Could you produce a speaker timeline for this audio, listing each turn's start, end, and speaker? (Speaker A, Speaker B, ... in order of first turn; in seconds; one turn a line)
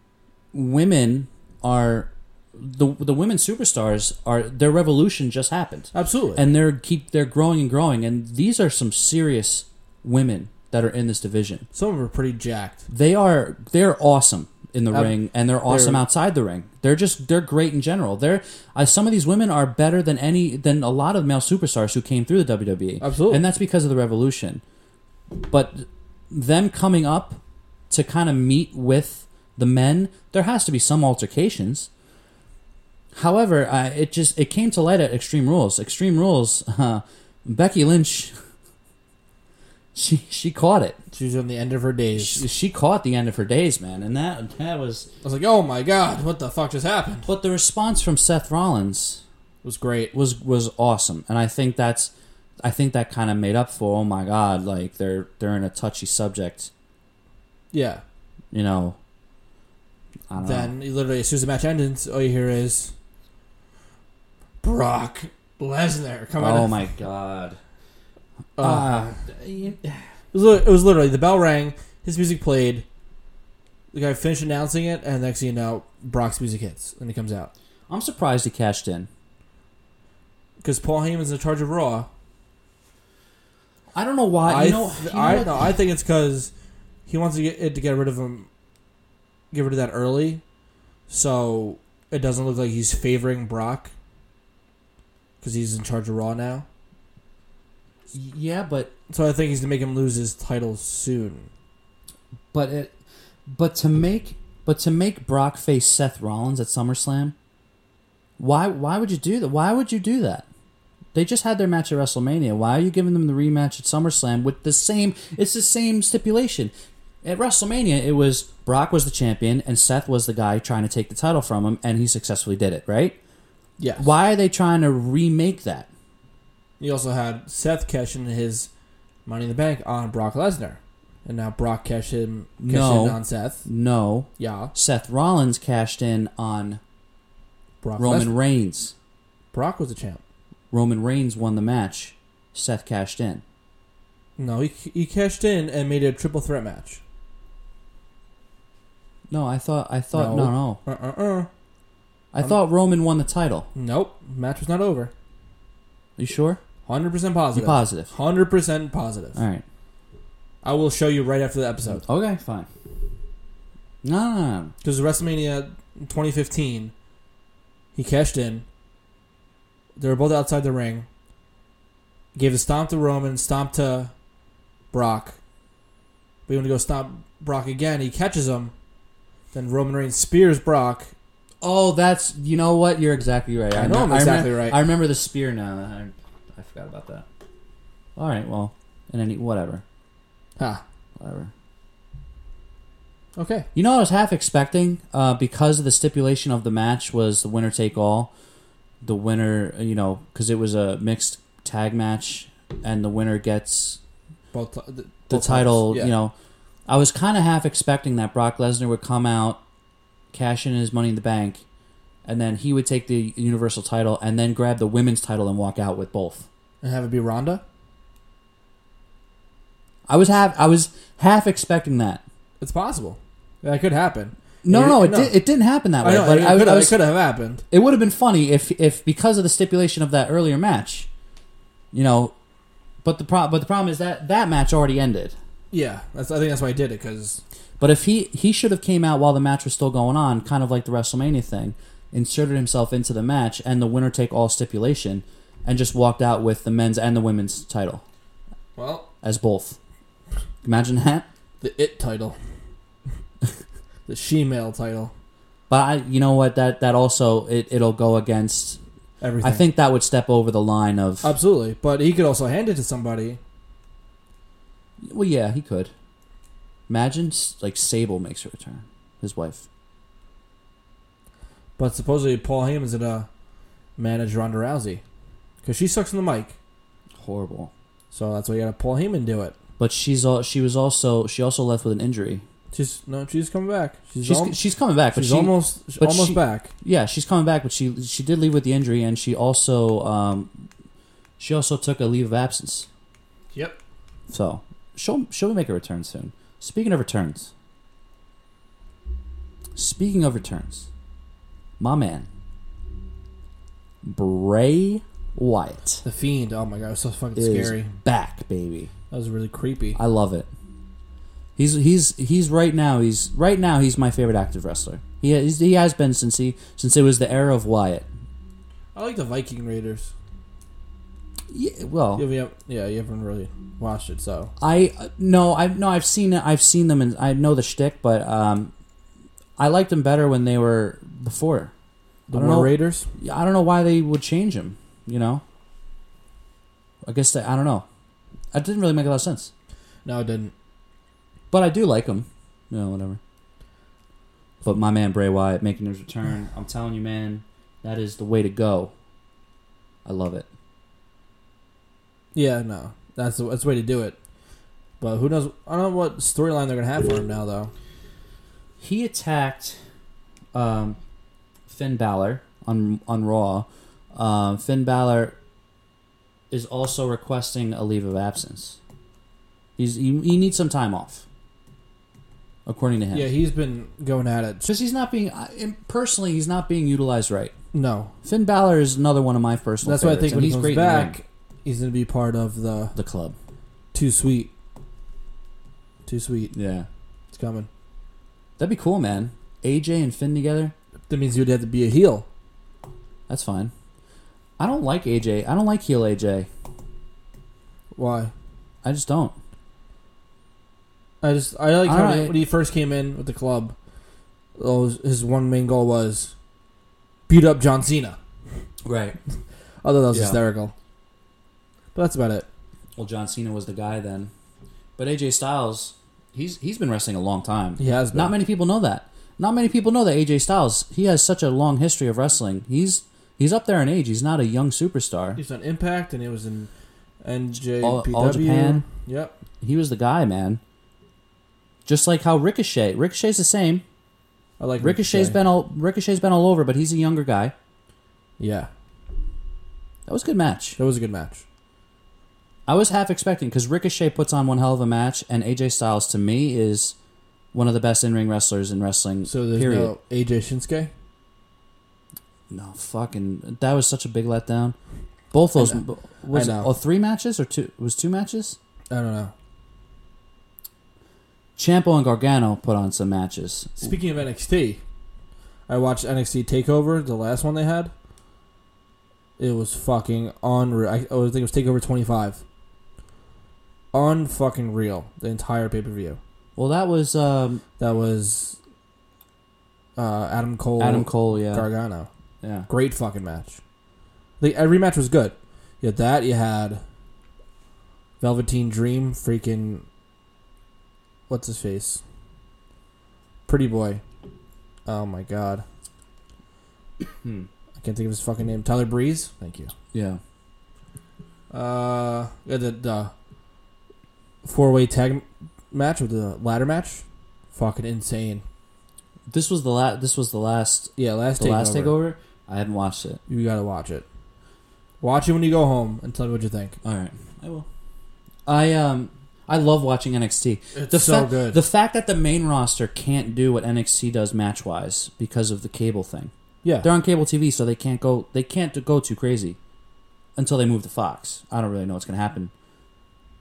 Speaker A: 0.5-11.7
Speaker B: 5.9-6.4
Speaker B: 11.7-12.8
Speaker A: 12.9-24.6
Speaker B: 15.7-16.0
Speaker B: 23.0-23.4
Speaker A: 25.4-31.9
Speaker A: 33.1-38.3
Speaker A: 39.9-41.0
Speaker B: 41.1-42.5
Speaker A: 42.1-45.1
Speaker B: 45.2-47.3
Speaker A: 47.3-49.2
Speaker B: 49.6-50.1
Speaker A: 50.1-52.1
Speaker A: 52.6-56.7
Speaker B: 57.7-58.0
Speaker A: 58.5-59.0
Speaker A: 60.3-60.7
Speaker B: 60.4-62.9
Speaker B: 64.6-66.8
Speaker A: 66.4-67.6
Speaker B: 68.6-69.2
Speaker A: 68.6-70.1
Speaker B: 70.3-72.8
Speaker B: 73.9-77.5
Speaker A: 77.9-79.1
Speaker B: 80.6-82.1
Speaker A: 83.9-85.7
Speaker B: 84.4-86.5
Speaker B: 87.1-88.5
Speaker B: 89.5-90.4
Speaker B: 91.1-93.9
Speaker B: 95.4-96.7
Speaker A: 98.1-98.9
Speaker B: 99.1-101.5
Speaker A: 102.5-102.9
Speaker A: 103.5-107.3
Speaker A: 108.4-110.5
Speaker A: 111.1-116.7
Speaker A: 117.2-123.2
Speaker B: 123.8-124.1
Speaker A: 124.0-125.9
Speaker B: 126.8-128.7
Speaker B: 129.2-133.7
Speaker A: 132.6-136.8
Speaker B: 134.4-134.7
Speaker B: 137.8-138.3
Speaker A: 138.0-138.9
Speaker B: 139.5-140.2
Speaker A: 140.7-143.4
Speaker B: 144.4-147.0
Speaker A: 149.3-150.8
Speaker B: 150.1-151.5
Speaker A: 152.3-153.7
Speaker B: 153.7-155.1
Speaker A: 156.2-156.6
Speaker B: 156.8-159.4
Speaker A: 157.5-158.1
Speaker A: 159.3-159.6
Speaker B: 160.6-162.0
Speaker A: 162.0-162.7
Speaker A: 164.0-164.7
Speaker B: 164.8-166.9
Speaker B: 167.9-168.6
Speaker B: 170.0-171.1
Speaker B: 172.3-174.1
Speaker B: 174.9-175.4
Speaker B: 176.5-178.7
Speaker B: 179.5-181.1
Speaker A: 181.6-187.2
Speaker B: 183.7-184.8
Speaker A: 188.2-189.8
Speaker B: 190.6-190.8
Speaker A: 191.2-191.5
Speaker B: 193.3-193.7
Speaker A: 193.7-198.3
Speaker A: 199.0-204.0
Speaker B: 204.5-206.1
Speaker A: 205.3-206.3
Speaker A: 206.9-209.6
Speaker A: 210.3-211.6
Speaker A: 212.2-216.5
Speaker B: 216.8-217.6
Speaker A: 220.1-222.2
Speaker B: 222.6-225.3
Speaker A: 224.6-227.0
Speaker B: 226.0-227.6
Speaker A: 227.7-231.1
Speaker A: 231.9-232.3
Speaker A: 233.0-235.3
Speaker B: 235.7-237.4
Speaker A: 237.8-248.0
Speaker B: 248.8-249.1
Speaker A: 249.2-249.8
Speaker A: 250.6-251.2
Speaker B: 251.6-252.3
Speaker B: 254.1-255.1
Speaker A: 255.7-258.8
Speaker B: 259.2-259.6
Speaker A: 259.4-261.3
Speaker B: 261.2-263.4
Speaker A: 265.0-265.9
Speaker A: 266.9-269.6
Speaker B: 271.8-273.3
Speaker B: 274.0-275.0
Speaker B: 275.6-276.6
Speaker A: 277.2-277.7
Speaker B: 278.1-279.5
Speaker A: 279.8-282.4
Speaker B: 282.7-284.6
Speaker A: 284.2-290.5
Speaker B: 285.1-286.7
Speaker A: 291.4-292.9
Speaker B: 293.5-293.8
Speaker A: 294.3-297.5
Speaker A: 299.8-300.9
Speaker A: 301.8-302.3
Speaker A: 304.0-306.0
Speaker B: 306.0-307.9
Speaker A: 307.3-308.9
Speaker B: 309.1-310.0
Speaker A: 309.9-310.5
Speaker A: 311.6-318.1
Speaker B: 318.9-320.1
Speaker A: 321.5-322.2
Speaker B: 322.1-324.5
Speaker A: 324.6-328.7
Speaker A: 329.6-331.7
Speaker B: 332.3-333.1
Speaker A: 332.3-335.4
Speaker A: 337.0-337.8
Speaker A: 338.5-339.5
Speaker B: 340.0-340.5
Speaker A: 341.5-343.2
Speaker A: 344.6-348.9
Speaker A: 350.0-350.4
Speaker B: 352.3-354.2
Speaker B: 355.0-357.7
Speaker A: 358.8-359.8
Speaker A: 360.5-361.0
Speaker A: 361.7-365.4
Speaker A: 366.5-368.8
Speaker A: 369.8-371.2
Speaker A: 372.6-373.3
Speaker B: 373.1-374.6
Speaker A: 374.6-377.5
Speaker B: 377.7-378.1
Speaker A: 378.2-381.1
Speaker B: 379.8-383.0
Speaker A: 382.9-383.3
Speaker B: 383.9-384.5
Speaker B: 386.1-386.5
Speaker A: 386.5-386.9
Speaker B: 387.3-387.7
Speaker A: 388.6-390.7
Speaker B: 391.1-392.2
Speaker A: 393.3-393.7
Speaker A: 394.6-396.5
Speaker B: 397.9-398.3
Speaker A: 398.8-399.3
Speaker B: 401.2-403.7
Speaker A: 401.9-402.4
Speaker B: 404.6-406.3
Speaker B: 407.3-408.2
Speaker A: 408.8-409.2
Speaker B: 409.8-410.7
Speaker A: 410.1-410.4
Speaker B: 411.9-412.5
Speaker A: 412.9-414.3
Speaker A: 415.0-425.4
Speaker B: 417.8-418.3
Speaker B: 425.4-426.7
Speaker B: 427.2-429.3
Speaker A: 427.8-428.8
Speaker A: 429.6-430.6
Speaker A: 431.9-433.8
Speaker B: 434.6-435.4
Speaker A: 434.8-437.5
Speaker B: 438.4-438.7
Speaker A: 440.1-440.8
Speaker B: 440.8-441.4
Speaker A: 442.7-446.9
Speaker A: 447.5-449.9
Speaker B: 449.2-450.9
Speaker A: 452.5-454.8
Speaker A: 455.3-458.6
Speaker B: 455.6-456.7
Speaker B: 458.9-459.3
Speaker A: 461.6-463.9
Speaker B: 463.8-464.8
Speaker B: 465.7-467.9
Speaker B: 469.4-472.4
Speaker B: 473.9-476.2
Speaker A: 476.6-477.6
Speaker B: 477.8-478.6
Speaker B: 479.9-482.1
Speaker A: 480.8-481.7
Speaker A: 482.4-482.7
Speaker B: 482.7-483.6
Speaker B: 484.4-486.8
Speaker B: 488.2-489.8
Speaker B: 491.3-492.0
Speaker B: 493.5-494.0
Speaker B: 494.9-495.6
Speaker A: 497.2-497.5
Speaker B: 497.8-499.7
Speaker A: 499.9-500.2
Speaker B: 501.5-503.1
Speaker B: 504.4-508.4
Speaker A: 509.3-513.2
Speaker B: 511.0-511.9
Speaker B: 513.3-514.0
Speaker B: 515.0-516.8
Speaker A: 516.8-517.6
Speaker A: 518.5-526.3
Speaker B: 520.7-521.6
Speaker B: 526.6-526.9
Speaker A: 526.8-529.6
Speaker A: 530.4-532.5